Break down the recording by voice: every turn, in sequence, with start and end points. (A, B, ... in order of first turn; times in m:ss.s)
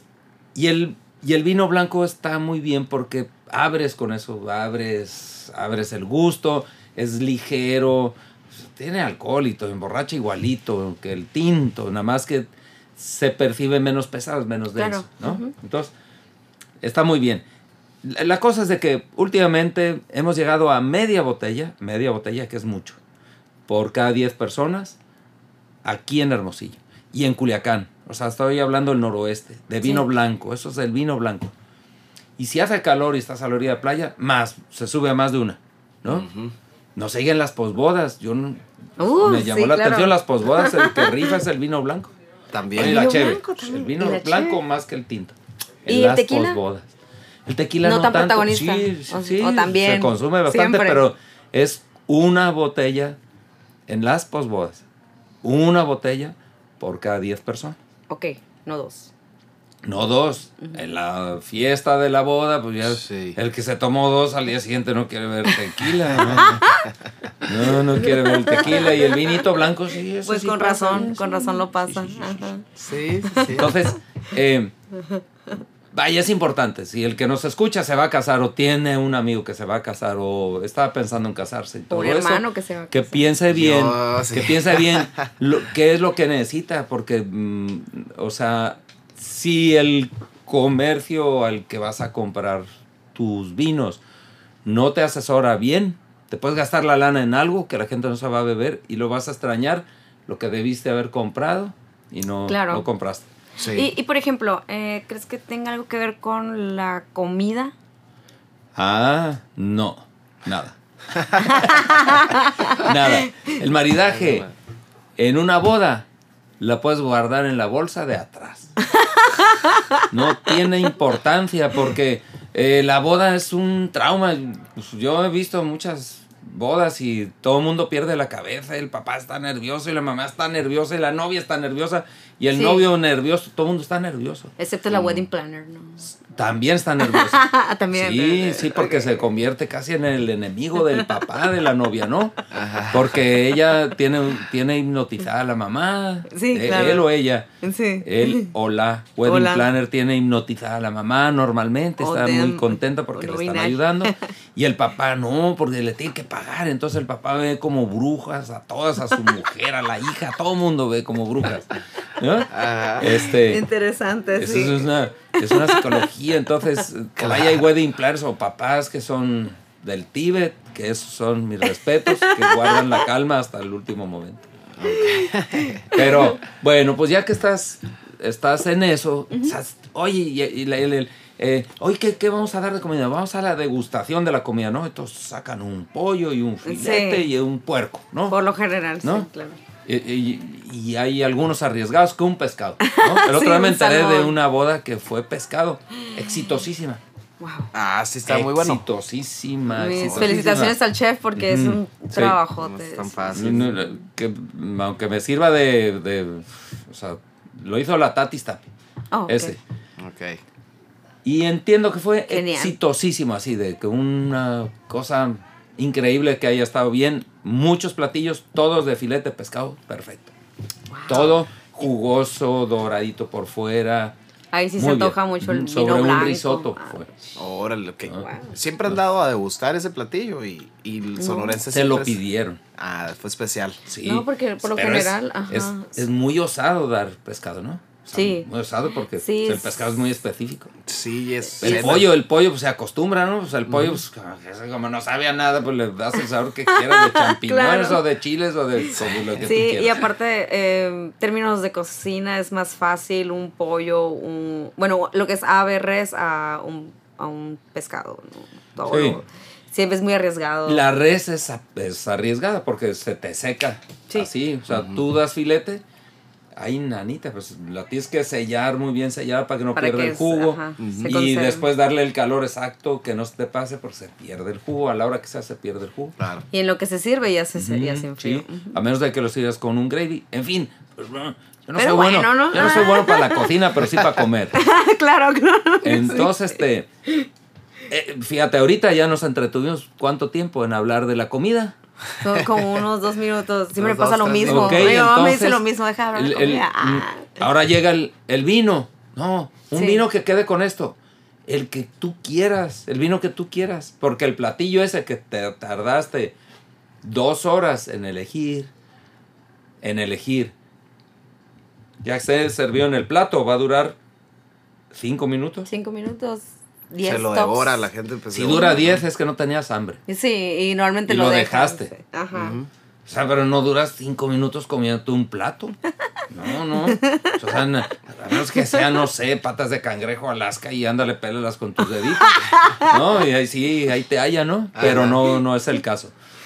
0:00.6-0:15.9 A
0:14.8-0:15.5 B
0:16.8-0:17.4 A
0:18.0-0:23.0 A
0:23.7-0:25.0 A
0:25.8-0:31.5 A
0:32.4-0:36.3 A
0:36.1-0:36.5 C
0:37.0-0:42.1 A
0:39.0-0:41.4 B
0:42.5-0:43.0 C
0:42.8-0:46.9 A
0:42.8-0:44.6 B
0:45.9-0:46.6 B
0:47.5-0:53.2 A
0:47.8-0:51.0 B
0:53.9-0:54.8 A
0:55.4-0:57.8 A
0:58.1-0:59.1 B
0:59.8-1:06.7 A
1:02.9-1:03.4 C
1:06.2-1:06.5 C
1:06.4-1:06.8 B
1:07.4-1:12.5 A
1:07.9-1:09.4 B
1:10.2-1:12.7 B
1:12.8-1:13.8 C
1:13.3-1:13.7 B
1:13.5-1:14.7 A
1:15.9-1:34.0 A
1:21.9-1:23.2 B
1:23.5-1:25.3 C
1:34.6-1:43.3 A
1:42.5-1:42.9 B
1:43.6-1:43.9 C
1:43.7-1:47.7 B
1:48.8-1:50.8 A
1:51.4-1:53.5 B
1:51.6-1:54.5 A
1:54.1-1:54.5 C
1:55.2-1:56.1 A
1:56.6-1:58.7 A
1:58.9-2:00.6 B
2:00.1-2:14.5 A
2:12.5-2:12.9 B
2:14.6-2:16.1 B
2:14.9-2:15.2 C
2:16.3-2:22.4 A
2:17.0-2:19.2 B
2:22.5-2:23.3 C
2:22.9-2:27.5 A
2:26.3-2:27.1 B
2:27.6-2:28.5 B
2:28.0-2:43.6 A
2:29.2-2:29.7 B
2:32.0-2:34.2 B
2:42.5-2:43.3 C
2:43.4-2:46.0 B
2:44.4-2:54.5 A
2:47.2-2:47.6 C
2:52.1-2:53.0 B
2:54.8-2:55.9 C
2:54.9-2:56.4 B
2:55.9-3:08.4 A
2:59.3-2:59.6 B
3:06.6-3:07.3 B
3:08.3-3:09.6 B
3:09.0-3:09.3 A
3:09.9-3:17.0 A
3:12.8-3:14.4 B
3:17.4-3:17.7 B
3:17.7-3:18.8 C
3:18.3-3:20.8 A
3:19.7-3:23.7 B
3:20.0-3:20.6 C
3:21.4-3:22.4 A
3:22.6-3:23.8 C
3:23.3-3:28.7 A
3:29.1-3:29.6 B
3:29.3-3:29.6 A
3:30.0-3:30.4 C
3:31.2-3:40.3 A
3:32.3-3:32.8 B
3:40.9-3:41.4 B
3:41.1-3:44.2 A
3:44.5-3:47.4 B
3:44.8-3:47.1 A
3:47.4-3:52.2 C
3:48.1-3:48.6 B
3:51.2-3:51.6 B
3:51.7-3:52.6 A
3:52.8-3:53.8 C
3:53.9-4:00.7 A
3:54.0-3:56.0 B
3:58.1-3:58.5 B
3:59.2-3:59.8 B
4:00.8-4:02.1 C
4:01.6-4:10.1 A
4:03.7-4:04.0 C
4:06.7-4:08.0 B
4:09.0-4:09.6 C
4:09.4-4:20.9 B
4:18.9-4:19.2 A
4:20.7-4:25.8 A
4:24.7-4:25.0 C
4:26.6-4:36.2 A
4:29.8-4:31.7 B
4:30.8-4:31.1 C
4:36.2-4:36.4 C
4:36.5-4:38.8 B
4:37.6-4:44.6 A
4:41.8-4:43.6 B
4:44.5-4:47.3 B
4:45.8-4:46.9 A
4:47.9-4:51.8 A
4:52.2-4:57.4 B
4:53.8-4:55.1 C
4:54.5-5:06.4 A
4:59.7-5:00.0 B
5:07.0-5:08.7 A
5:09.8-5:10.5 A
5:12.0-5:14.0 A
5:14.9-5:15.7 A
5:15.7-5:17.9 B
5:17.0-5:19.0 C
5:18.3-5:20.0 A
5:18.5-5:18.8 B
5:20.1-5:22.6 B
5:21.1-5:21.9 A
5:22.3-5:22.7 C
5:23.1-5:25.8 A
5:26.3-5:36.1 A
5:26.7-5:27.4 B
5:32.0-5:33.0 B
5:34.8-5:35.4 C